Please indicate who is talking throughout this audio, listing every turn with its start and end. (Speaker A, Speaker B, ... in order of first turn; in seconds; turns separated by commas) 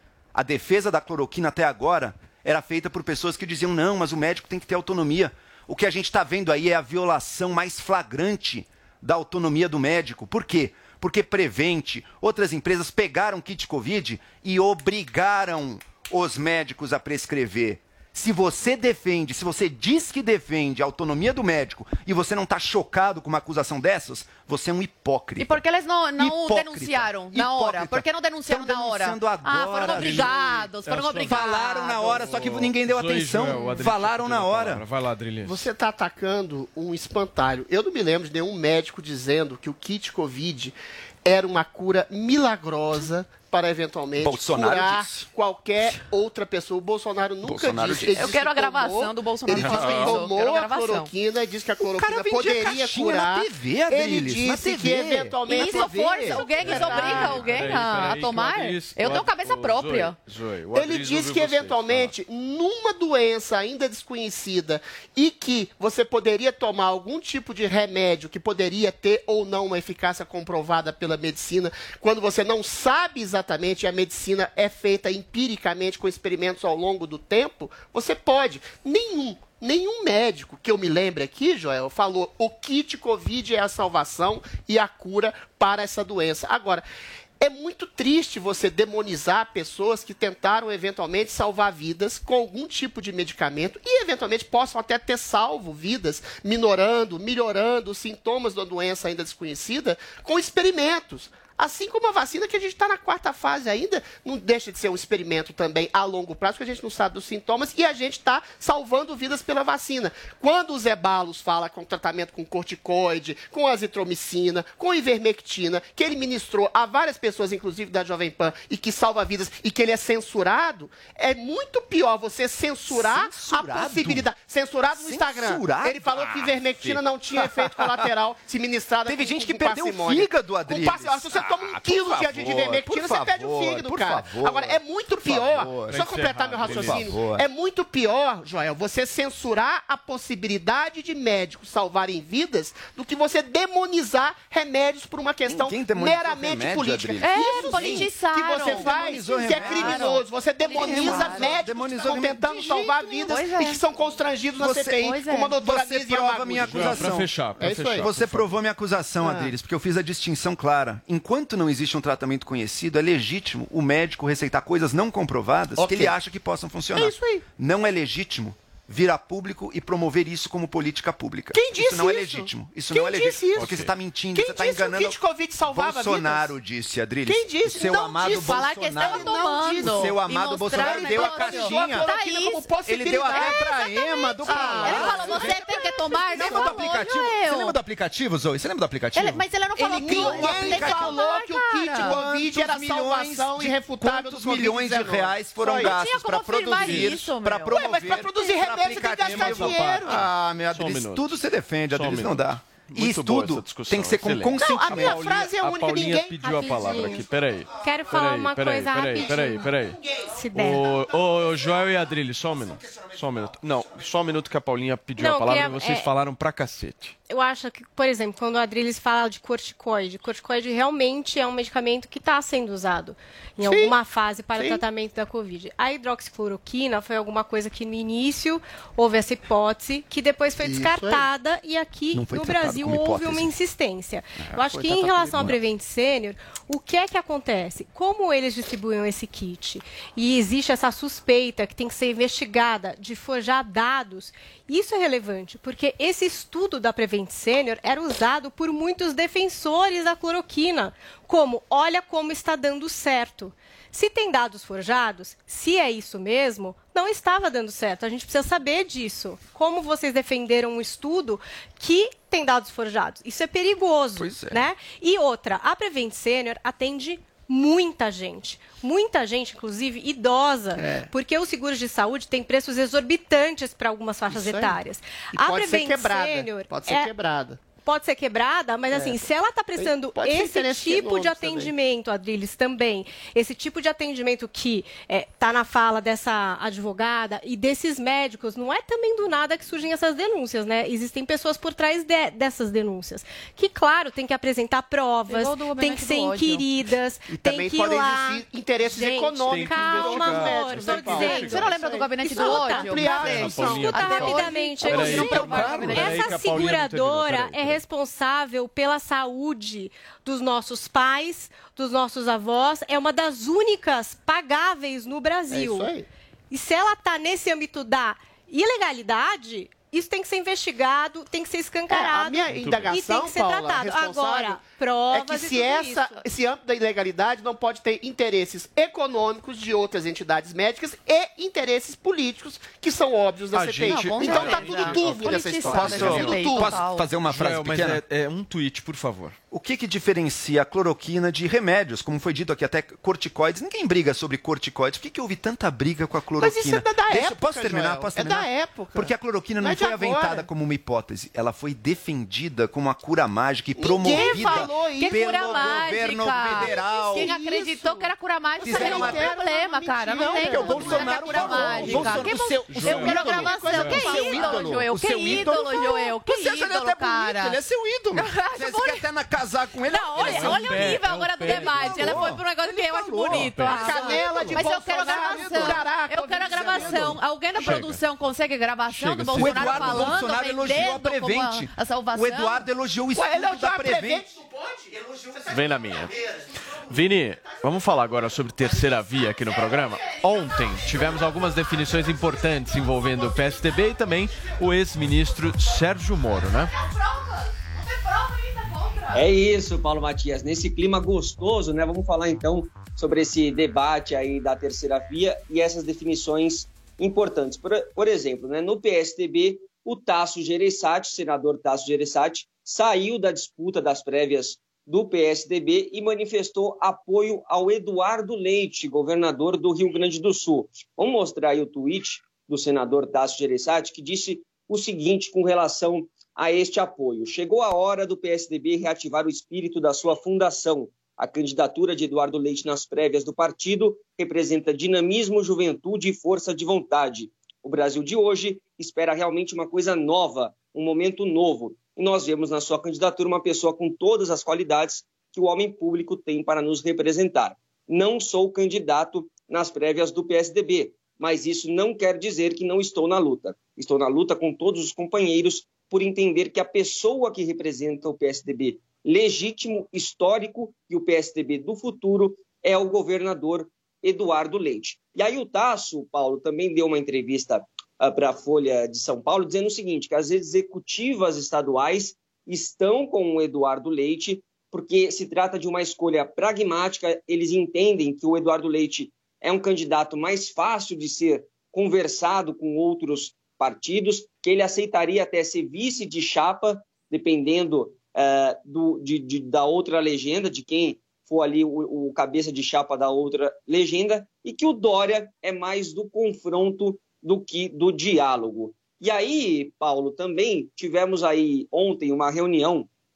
Speaker A: 0.3-25.6, Speaker B: 25.4-32.4, Speaker A: 26.2-34.8, Speaker C: 30.9-35.7, Speaker D: 35.4-57.4, Speaker A: 44.2-45.3, Speaker A: 47.4-48.4, Speaker B: 48.1-51.1, Speaker C: 49.5-50.2, Speaker A: 49.6-50.0, Speaker A: 52.0-57.3, Speaker B: 55.5-60.2, Speaker C: 56.8-62.1, Speaker D: 60.7-86.8, Speaker D: 87.4-158.3, Speaker A: 122.9-124.3, Speaker A: 125.0-128.0, Speaker A: 129.1-137.4, Speaker C: 135.9-137.2, Speaker A: 145.5-153.5, Speaker B: 147.2-151.5, Speaker B: 153.3-153.8, Speaker A: 154.6-175.2, Speaker B: 155.0-155.6, Speaker C: 156.6-158.5, Speaker D: 159.2-159.6, Speaker D: 165.8-166.2, Speaker D: 166.9-167.4, Speaker D: 171.5-176.6, Speaker C: 173.6-173.9, Speaker A: 175.7-182.1, Speaker D: 177.3-180.2, Speaker B: 178.0-187.8, Speaker D: 180.7-187.0, Speaker A: 182.9-185.6, Speaker A: 186.3-191.2, Speaker B: 189.1-192.2, Speaker D: 189.8-196.0, Speaker A: 191.9-205.3, Speaker B: 195.7-198.0, Speaker D: 197.7-200.2, Speaker C: 199.2-210.0, Speaker D: 204.6-207.2, Speaker E: 206.4-207.2, Speaker E: 207.8-210.9, Speaker D: 209.9-210.2, Speaker C: 210.5-217.2, Speaker E: 215.2-216.1, Speaker E: 217.3-277.1, Speaker D: 223.6-224.0, Speaker D: 224.6-224.8, Speaker D: 230.6-231.3, Speaker A: 232.1-233.5, Speaker D: 234.5-235.5, Speaker A: 264.2-264.6, Speaker D: 270.8-271.1, Speaker D: 274.3-274.8, Speaker D: 275.3-277.6, Speaker E: 277.8-315.9, Speaker D: 278.9-279.2, Speaker D: 279.8-281.7, Speaker B: 295.3-296.7, Speaker D: 297.3-306.2, Speaker C: 299.5-301.6, Speaker B: 300.9-306.4, Speaker C: 303.1-307.8, Speaker D: 315.5-316.1, Speaker E: 316.5-326.2, Speaker D: 321.9-336.8, Speaker C: 322.5-322.9, Speaker C: 333.5-336.3, Speaker A: 333.8-338.0, Speaker B: 333.9-337.1, Speaker C: 337.2-339.4, Speaker A: 339.5-357.3, Speaker D: 346.4-350.5, Speaker D: 353.8-364.8, Speaker B: 354.1-367.6, Speaker A: 358.6-359.3, Speaker A: 360.1-372.4, Speaker C: 362.7-364.0, Speaker B: 368.1-369.1, Speaker B: 369.9-382.7, Speaker C: 370.2-372.4, Speaker C: 373.1-373.9, Speaker D: 373.2-377.2, Speaker A: 376.7-377.1, Speaker C: 377.6-378.0, Speaker C: 378.9-380.1, Speaker A: 379.3-384.2, Speaker D: 383.1-385.0, Speaker C: 385.5-386.2, Speaker C: 386.9-396.7, Speaker B: 396.8-399.2, Speaker F: 399.1-502.9